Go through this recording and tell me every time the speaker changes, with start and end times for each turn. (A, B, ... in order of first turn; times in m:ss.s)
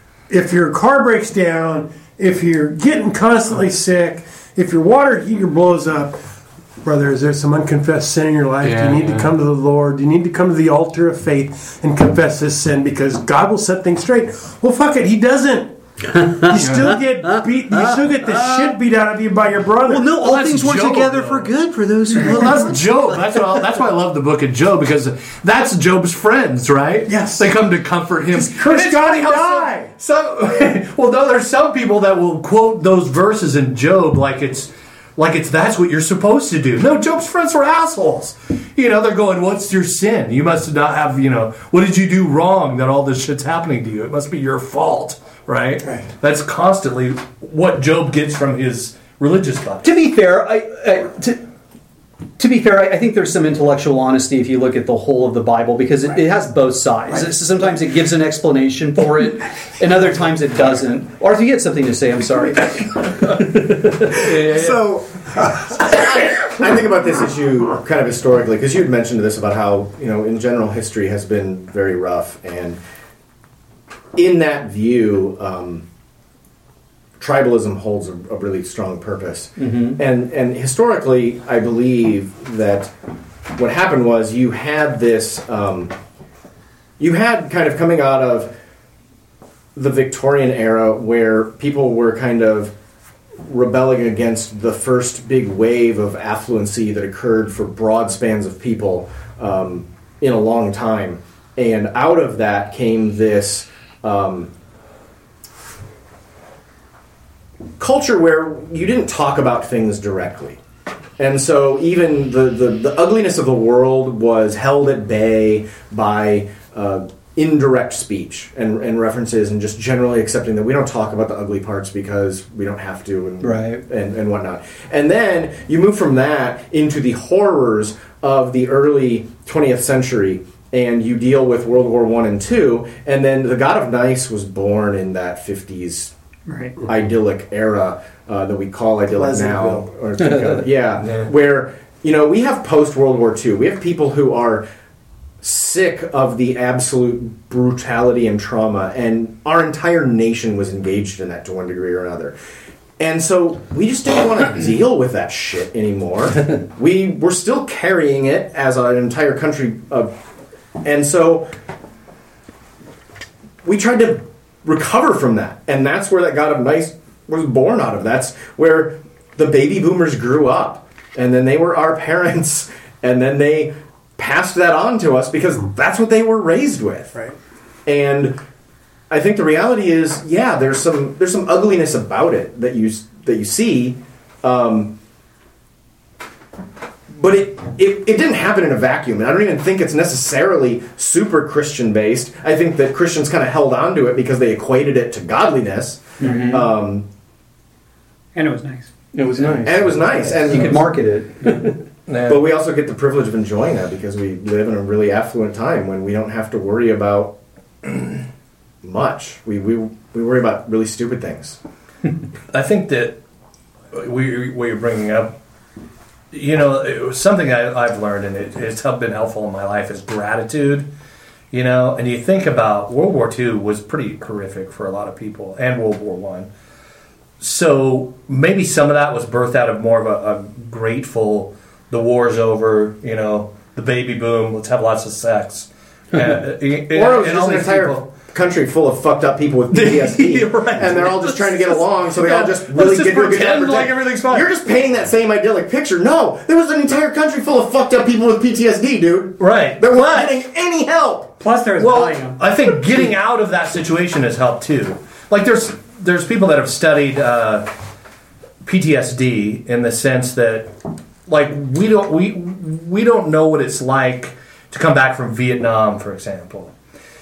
0:00.3-0:06.2 A
0:06.8-0:15.8 A
0:08.6-0:09.3 B
0:16.1-0:18.8 C
0:16.4-0:20.1 A
0:16.5-0:17.0 B
0:19.9-0:23.5 C
0:20.1-0:21.5 B
0:22.1-0:49.9 B
0:27.1-0:27.6 A
0:28.3-0:29.9 A
0:49.8-0:51.4 C
0:52.4-1:03.0 C
1:03.2-1:04.9 B
1:04.1-1:05.7 A
1:05.6-1:06.0 B
1:05.8-1:12.8 D
1:14.1-1:15.9 D
1:17.2-1:22.9 D
1:19.6-1:20.0 C
1:23.6-1:25.9 D
1:27.0-1:28.5 D
1:29.8-1:32.7 D
1:33.4-1:44.5 D
1:47.8-1:50.6 D
1:51.2-2:16.1 D
2:03.4-2:03.8 C
2:16.5-2:16.8 E
2:16.8-2:24.6 D
2:19.2-2:19.8 A
2:20.2-2:20.6 C
2:21.0-2:21.3 B
2:25.4-2:32.4 D
2:33.0-2:40.1 D
2:40.8-2:41.5 D
2:43.6-2:57.1 D
2:57.9-2:58.4 D
2:59.1-3:04.9 D
3:07.1-3:17.1 D
3:16.2-3:16.7 C
3:18.4-3:18.9 E
3:19.1-3:21.7 C
3:19.3-3:20.7 B
3:19.6-3:20.8 D
3:22.1-3:22.4 B
3:22.3-3:27.4 D
3:28.8-3:31.6 D
3:32.5-3:33.2 B
3:33.9-3:35.4 B
3:36.3-3:40.9 B
3:41.5-3:46.5 B
3:47.4-3:58.1 B
3:56.9-4:11.4 D
3:59.7-4:04.5 B
4:09.4-4:10.4 B
4:11.4-4:12.4 E
4:11.8-4:17.7 B
4:18.6-4:20.7 B
4:21.3-4:26.7 B